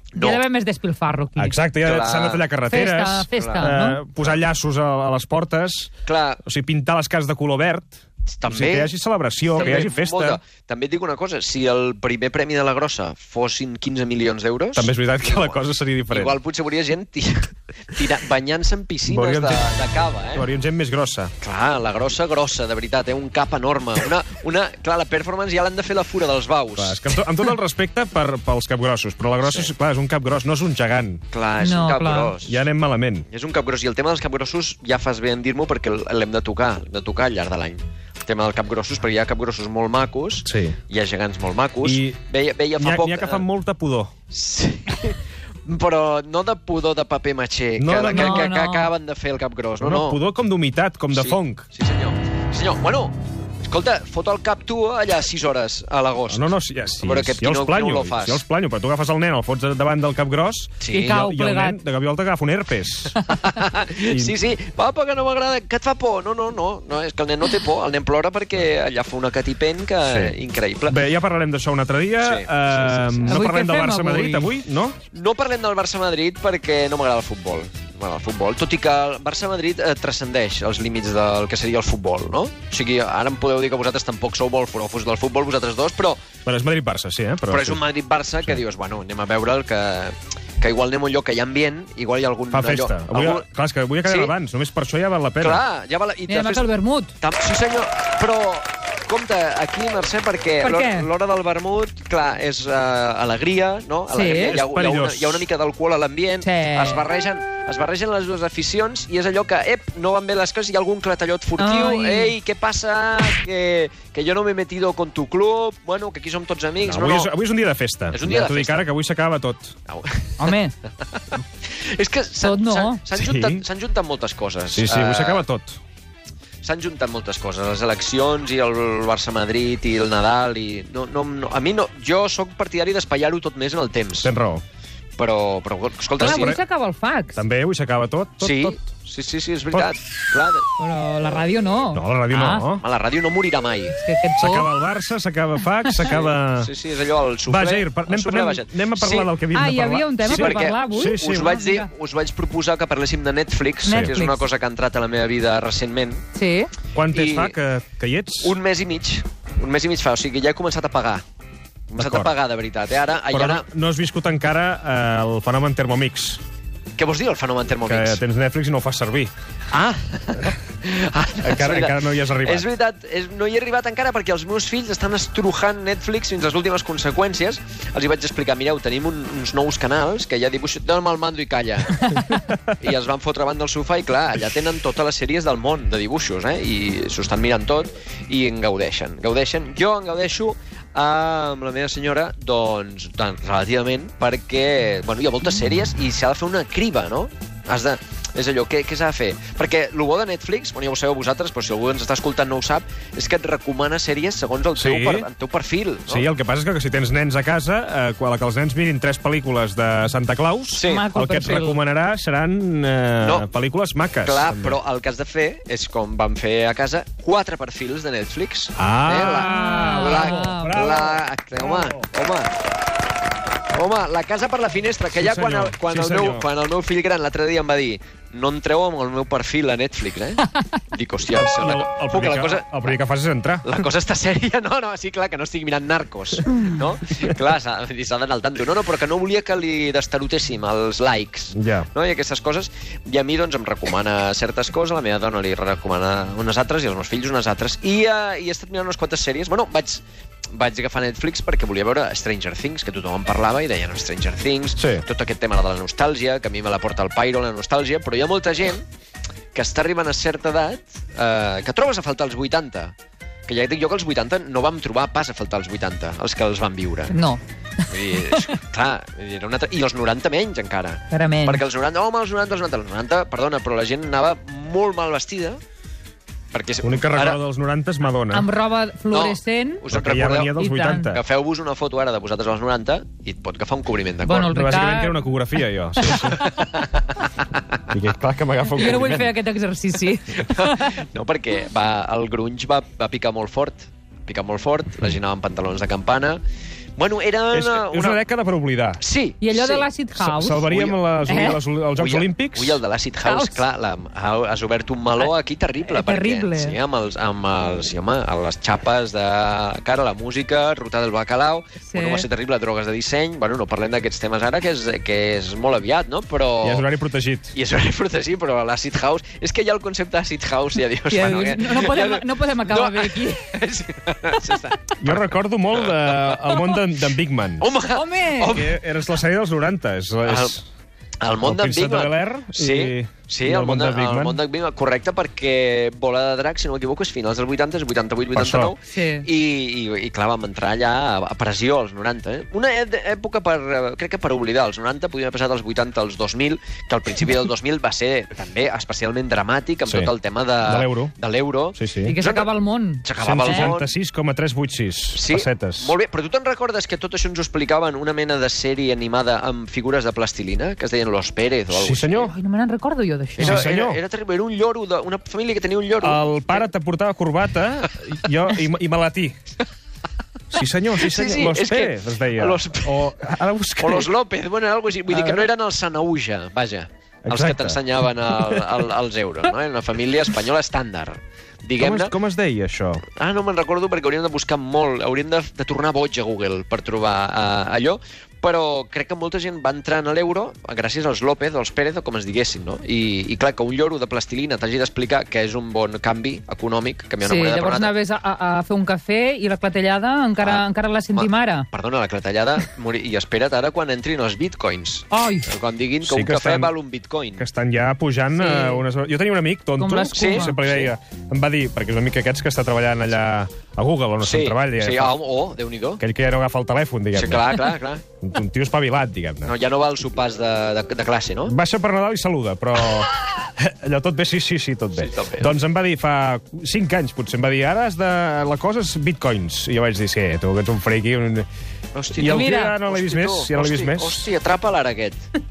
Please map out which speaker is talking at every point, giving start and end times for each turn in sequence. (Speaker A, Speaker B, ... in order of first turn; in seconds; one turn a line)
Speaker A: 0.1-0.4
Speaker B: 0.1-1.6
Speaker C: 1.4-5.9
Speaker A: 1.8-2.4
Speaker B: 2.7-4.0
Speaker A: 3.4-3.7
Speaker A: 6.0-6.4
Speaker C: 6.4-10.4
Speaker A: 8.3-8.9
Speaker A: 9.5-15.5
Speaker B: 9.6-9.8
Speaker C: 14.8-16.4
Speaker A: 16.1-20.5
Speaker C: 19.1-19.7
Speaker C: 20.3-21.3
Speaker A: 21.4-27.0
Speaker C: 26.8-31.2
Speaker A: 29.4-29.7
Speaker A: 31.3-32.6
Speaker B: 31.6-32.3
Speaker C: 32.4-33.2
Speaker A: 33.3-43.4
Speaker C: 40.4-40.8
Speaker C: 41.8-42.2
Speaker C: 42.8-44.1
Speaker A: 44.3-50.2
Speaker C: 47.8-48.5
Speaker B: 47.9-48.9
Speaker C: 49.8-51.6
Speaker A: 51.1-58.4
Speaker C: 56.3-63.2
Speaker A: 60.8-61.1
Speaker B: 60.9-61.8
Speaker A: 63.2-71.0
Speaker C: 64.1-64.3
Speaker C: 70.1-70.3
Speaker C: 70.9-75.0
Speaker A: 72.2-73.4
Speaker B: 73.3-74.5
Speaker A: 75.1-86.2
Speaker C: 86.4-87.8
Speaker A: 87.5-93.5
Speaker C: 92.5-95.6
Speaker A: 94.0-94.3
Speaker A: 95.4-117.3
Speaker B: 96.3-97.1
Speaker B: 100.6-101.1
Speaker B: 104.1-104.6
Speaker C: 104.3-105.5
Speaker B: 106.4-107.0
Speaker B: 111.6-112.3
Speaker C: 116.8-119.7
Speaker A: 118.1-118.9
Speaker A: 119.9-125.4
Speaker B: 120.4-120.7
Speaker B: 122.4-123.0
Speaker C: 123.1-123.6
Speaker C: 124.8-125.8
Speaker A: 126.6-134.3
Speaker C: 134.2-134.6
Speaker A: 135.2-136.6
Speaker C: 136.2-136.6
Speaker B: 136.2-137.4
Speaker C: 137.3-138.8
Speaker A: 138.4-140.7
Speaker B: 140.8-142.7
Speaker C: 141.9-142.8
Speaker A: 142.8-143.9
Speaker B: 143.9-144.7
Speaker C: 144.4-146.7
Speaker A: 146.0-149.3
Speaker C: 147.5-151.5
Speaker B: 149.5-151.9
Speaker A: 150.2-156.2
Speaker B: 153.8-154.4
Speaker C: 153.8-154.2
Speaker B: 156.3-156.7
Speaker C: 156.9-158.5
Speaker A: 157.0-157.6
Speaker A: 158.4-161.2
Speaker A: 161.9-163.6
Speaker C: 161.9-162.3
Speaker C: 163.3-166.4
Speaker A: 167.0-168.2
Speaker C: 167.9-169.3
Speaker A: 169.7-206.3
Speaker C: 171.4-172.7
Speaker C: 182.2-182.7
Speaker C: 204.7-205.3
Speaker C: 206.1-214.8
Speaker A: 210.7-211.1
Speaker B: 210.8-211.8
Speaker A: 213.2-213.5
Speaker A: 214.2-222.5
Speaker C: 218.8-222.0
Speaker B: 219.4-220.8
Speaker A: 223.7-233.0
Speaker C: 225.1-226.4
Speaker C: 231.3-233.8
Speaker A: 233.6-258.9
Speaker C: 241.5-241.9
Speaker C: 254.8-255.0
Speaker A: 259.5-262.9
Speaker A: 263.5-267.1
Speaker B: 267.1-268.5
Speaker A: 267.9-275.6
Speaker B: 271.1-271.6
Speaker A: 276.5-277.4
Speaker C: 276.8-278.5
Speaker B: 278.3-279.8
Speaker A: 279.1-280.6
Speaker C: 279.9-281.2
Speaker B: 280.6-281.1
Speaker A: 281.1-284.6
Speaker B: 284.2-285.2
Speaker C: 284.5-286.5
Speaker A: 286.0-287.6
Speaker C: 287.9-289.3
Speaker B: 288.8-291.0
Speaker A: 290.4-296.4
Speaker A: 296.9-298.2
Speaker C: 297.5-299.0
Speaker A: 299.0-299.9
Speaker B: 299.4-300.7
Speaker C: 300.2-302.8
Speaker A: 300.7-316.9
Speaker B: 301.3-301.6
Speaker B: 303.2-303.6
Speaker B: 305.9-306.8
Speaker B: 311.8-312.2
Speaker C: 316.6-317.5
Speaker A: 317.5-326.7
Speaker B: 321.1-323.4
Speaker C: 325.0-327.6
Speaker A: 327.6-328.7
Speaker B: 327.9-328.6
Speaker C: 328.4-330.6
Speaker A: 330.2-330.6
Speaker A: 331.2-352.5
Speaker C: 331.4-334.4
Speaker C: 338.3-338.7
Speaker B: 338.9-339.3
Speaker C: 349.9-351.1
Speaker C: 351.7-352.2
Speaker B: 352.0-353.7
Speaker A: 353.0-353.9
Speaker C: 353.2-355.9
Speaker A: 355.1-362.3
Speaker C: 361.7-362.3
Speaker B: 362.2-363.6
Speaker A: 363.4-366.7
Speaker C: 363.4-364.0
Speaker C: 366.0-369.4
Speaker C: 370.5-374.1
Speaker A: 370.9-373.1
Speaker A: 373.8-382.1
Speaker C: 375.1-375.4
Speaker C: 377.2-378.7
Speaker C: 381.8-383.0
Speaker A: 383.1-397.9
Speaker B: 397.2-401.7
Speaker A: 400.4-407.4
Speaker B: 405.1-405.5
Speaker C: 406.0-406.7
Speaker C: 407.4-415.1
Speaker B: 408.3-408.8
Speaker B: 409.8-410.6
Speaker A: 410.1-410.9
Speaker A: 414.2-416.0
Speaker C: 416.0-419.5
Speaker A: 417.1-418.0
Speaker A: 419.4-421.5
Speaker C: 421.5-431.5
Speaker A: 424.9-425.6
Speaker A: 431.9-435.2
Speaker C: 432.1-434.3
Speaker B: 432.2-432.8